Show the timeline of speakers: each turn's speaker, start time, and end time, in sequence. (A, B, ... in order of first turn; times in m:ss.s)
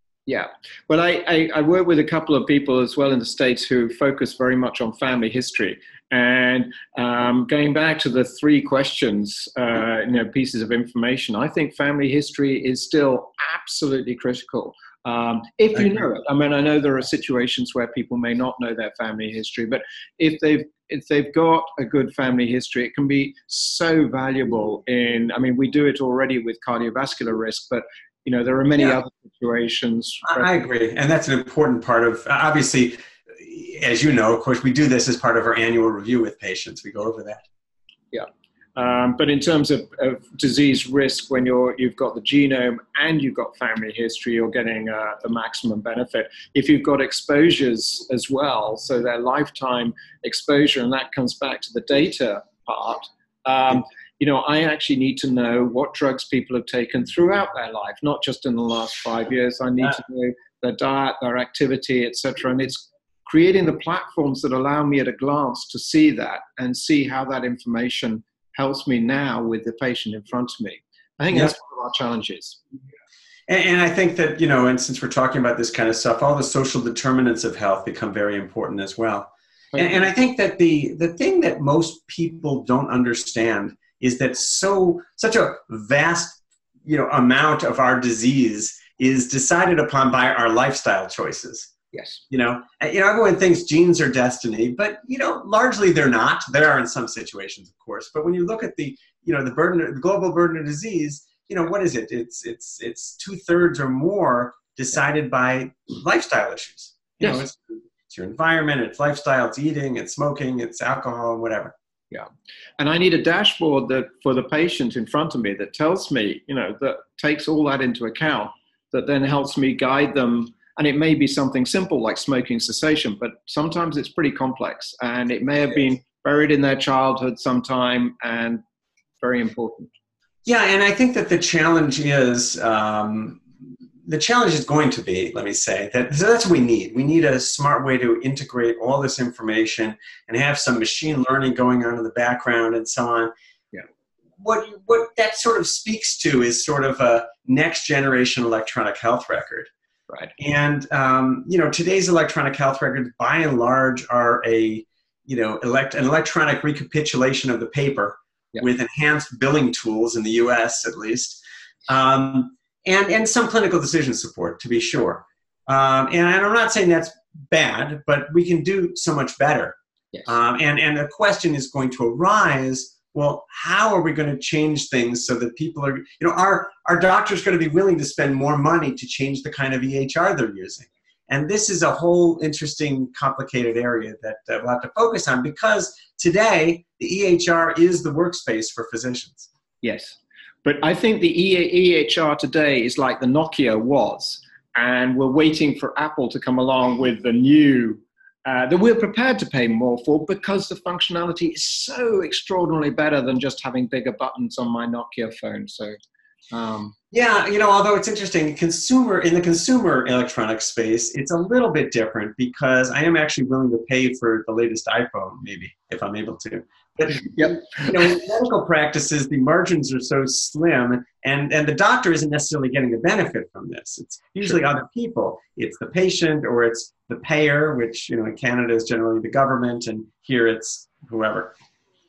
0:00.3-0:30.5 A
0:30.2-0:37.4 B
0:38.1-1:12.6 A
1:13.5-1:31.7 B
1:19.7-1:20.0 A
1:31.9-1:32.2 A
1:32.3-1:51.7 B
1:47.2-1:47.5 A
1:52.1-2:08.6 A
2:09.2-2:09.9 A
2:10.4-2:13.4 B
2:14.0-2:23.3 B
2:24.4-2:29.7 B
2:30.4-3:09.5 B
3:09.8-3:25.9 A
3:26.5-3:26.9 A
3:27.1-3:51.6 B
3:37.2-3:37.9 A